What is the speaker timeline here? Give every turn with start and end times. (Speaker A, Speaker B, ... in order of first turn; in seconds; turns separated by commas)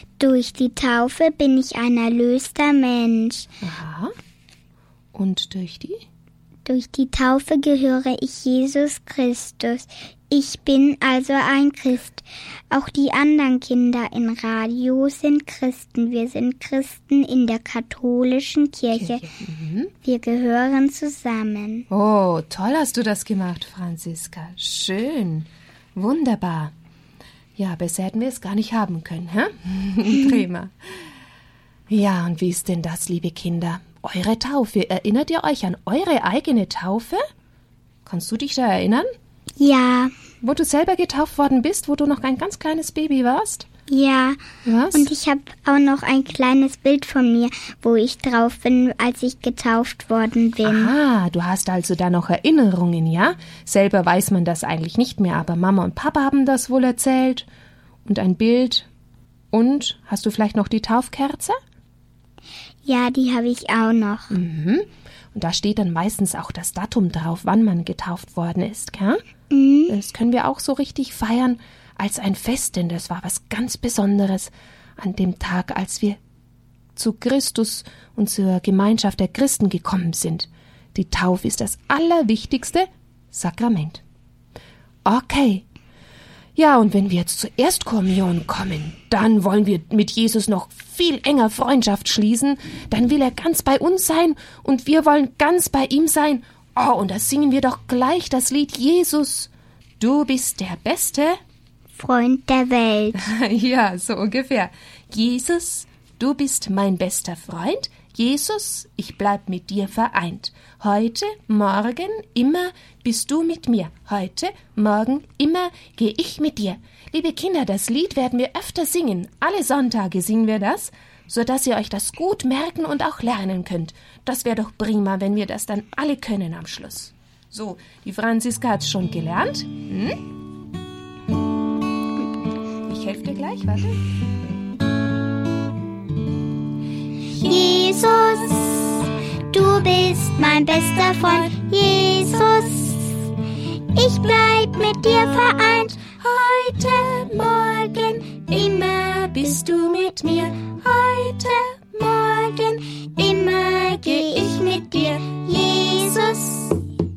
Speaker A: 0.2-3.5, Speaker B: 3.6-4.1, Speaker B: 5.1-6.0, Speaker A: 6.7-19.2, Speaker B: 18.9-19.9, Speaker A: 20.0-21.9, Speaker B: 21.9-26.7, Speaker B: 27.6-31.0, Speaker B: 31.9-37.2, Speaker B: 38.0-39.1, Speaker A: 39.6-40.1, Speaker B: 40.4-43.7, Speaker A: 43.9-44.4, Speaker B: 44.6-45.1, Speaker A: 44.9-50.9, Speaker B: 50.6-57.5, Speaker B: 58.0-58.9, Speaker B: 59.5-61.6, Speaker A: 62.8-64.3, Speaker B: 64.3-69.2, Speaker A: 69.5-69.9, Speaker B: 69.9-76.2, Speaker B: 77.0-84.0, Speaker B: 85.0-85.6, Speaker B: 86.5-101.4, Speaker A: 102.0-103.3, Speaker B: 103.2-130.2, Speaker B: 132.8-134.0, Speaker A: 137.3-143.3, Speaker A: 143.9-156.8